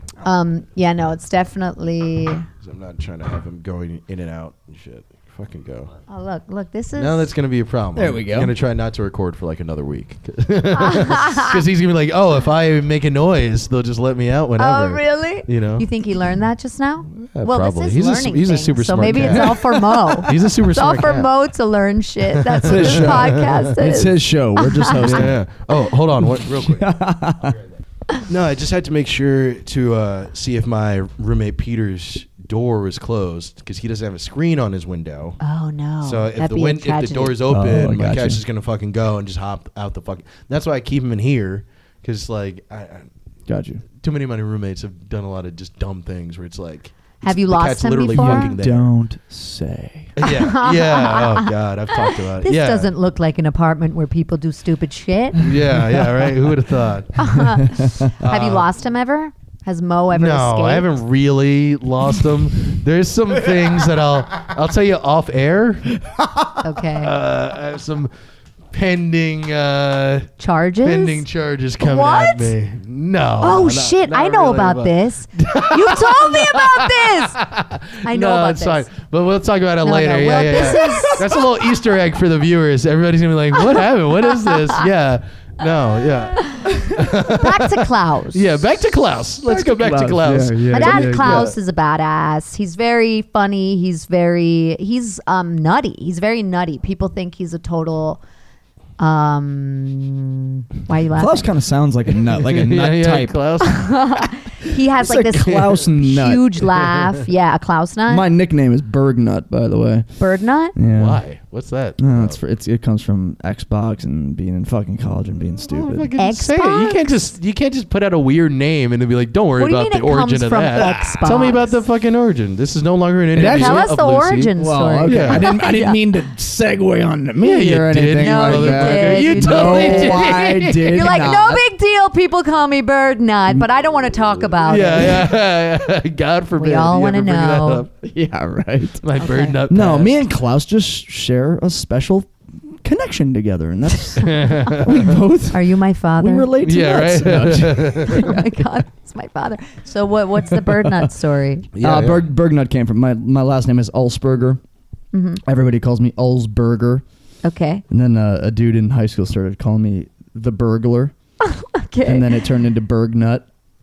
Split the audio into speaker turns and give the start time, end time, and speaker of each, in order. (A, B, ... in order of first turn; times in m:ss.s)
0:00.2-0:02.5 A
0:02.6-0:05.9 B
0:06.1-0:07.3 A
0:07.0-0:15.9 B
0:08.0-0:08.5 C
0:10.7-0:11.6 A
0:14.6-0:25.2 A
0:17.1-0:21.3 B
0:19.1-0:19.6 C
0:22.3-0:23.6 B
0:22.6-0:25.4 C
0:25.0-0:26.9 B
0:26.2-0:27.6 C
0:28.2-0:35.4 B
0:35.4-0:37.4 A
0:36.0-0:43.1 B
0:37.5-0:38.4 C
0:43.5-0:43.8 C
0:44.0-0:48.9 B
0:47.2-0:48.6 A
0:48.1-0:50.1 C
0:50.2-0:52.9 B
0:50.2-0:55.5 A
0:55.4-0:57.2 B
0:57.2-1:01.0 A
0:57.4-0:58.1 C
0:58.2-0:58.7 B
1:00.1-1:06.0 B
1:06.0-1:06.6 C
1:06.6-1:07.1 A
1:06.9-1:08.1 B
1:08.7-1:10.3 B
1:10.4-1:11.2 A
1:10.8-1:31.5 B
1:11.8-1:12.5 A
1:13.4-1:17.4 A
1:18.0-1:18.9 A
1:19.8-1:21.5 A
1:23.7-1:24.8 A
1:26.4-1:26.7 A
1:27.3-1:28.5 A
1:29.4-1:31.5 C
1:30.7-1:38.2 A
1:39.0-1:41.5 A
1:41.2-1:43.4 C
1:42.3-1:44.2 B
1:43.6-1:48.2 A
1:44.9-1:46.6 C
1:48.1-1:50.1 C
1:50.2-1:50.7 A
1:50.7-1:51.2 C
1:50.9-1:52.4 B
1:52.0-1:56.1 C
1:55.7-2:04.5 B
1:56.2-1:57.2 A
1:59.6-2:01.8 A
2:00.8-2:01.5 C
2:03.3-2:03.9 C
2:03.4-2:06.0 A
2:04.5-2:11.6 C
2:05.0-2:05.4 B
2:07.4-2:11.3 B
2:08.2-2:15.4 A
2:14.6-2:17.9 B
2:16.6-2:17.8 A
2:18.0-2:19.0 C
2:19.0-2:20.2 B
2:19.2-2:19.6 A
2:19.7-2:28.6 C
2:24.2-2:25.1 B
2:25.5-2:26.5 A
2:26.6-2:28.3 B
2:27.9-2:31.7 A
2:30.5-2:31.1 C
2:31.7-2:32.2 B
2:31.8-2:34.6 C
2:35.1-2:35.4 A
2:35.4-2:37.0 C
2:37.4-2:37.8 A
2:37.9-2:41.1 C
2:41.4-2:42.3 A
2:42.0-2:43.5 C